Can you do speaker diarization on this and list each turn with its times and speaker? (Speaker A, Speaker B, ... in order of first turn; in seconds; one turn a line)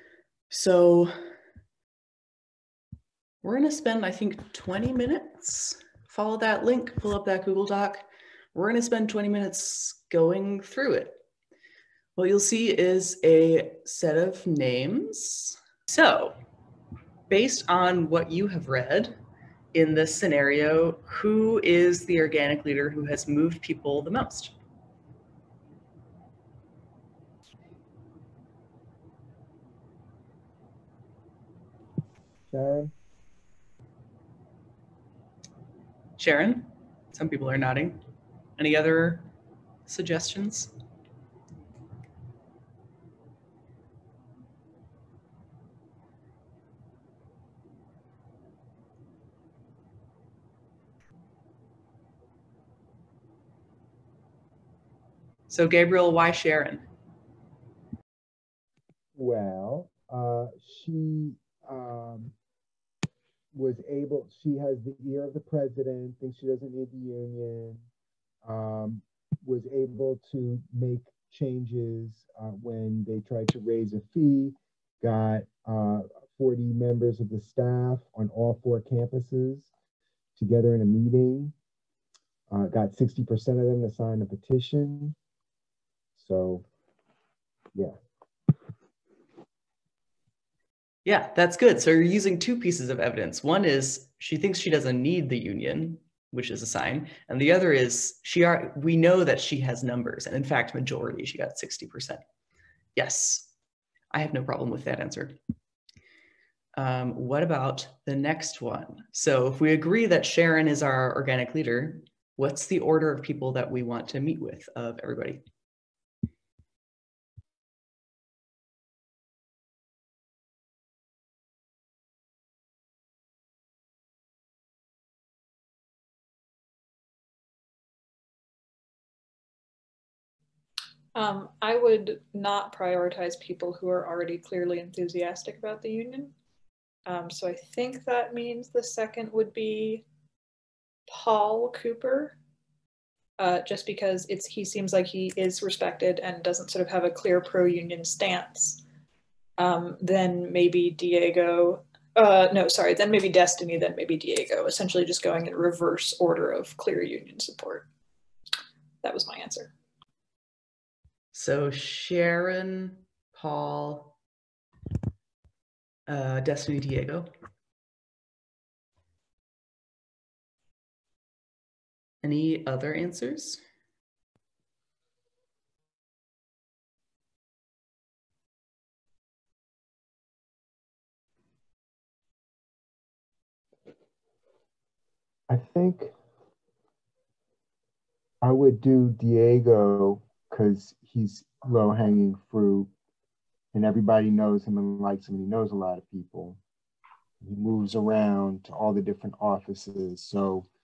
Speaker A: 0.5-1.1
Speaker A: 3.4-11.2
Speaker A: 12.2-16.4
Speaker A: 17.3-19.2
Speaker A: 19.7-24.5
Speaker B: 32.5-32.9
Speaker A: 36.2-38.0
Speaker A: 38.6-39.3
Speaker A: 39.9-40.7
Speaker A: 55.5-56.9
Speaker B: 59.1-62.3
Speaker B: 63.5-67.8
Speaker B: 68.4-79.7
Speaker B: 80.4-81.5
Speaker B: 82.5-85.1
Speaker B: 86.2-86.6
Speaker A: 91.0-102.2
Speaker A: 103.0-103.5
Speaker A: 104.1-105.4
Speaker A: 106.8-115.4
Speaker C: 131.1-136.3
Speaker C: 137.1-140.0
Speaker C: 141.1-142.4
Speaker C: 143.4-148.8
Speaker C: 149.6-157.8
Speaker C: 159.0-159.7
Speaker A: 161.3-164.1
Speaker A: 166.1-167.3
Speaker A: 172.2-173.6
Speaker B: 185.5-186.1
Speaker B: 188.4-192.9
Speaker B: 193.7-196.6
Speaker B: 197.4-200.7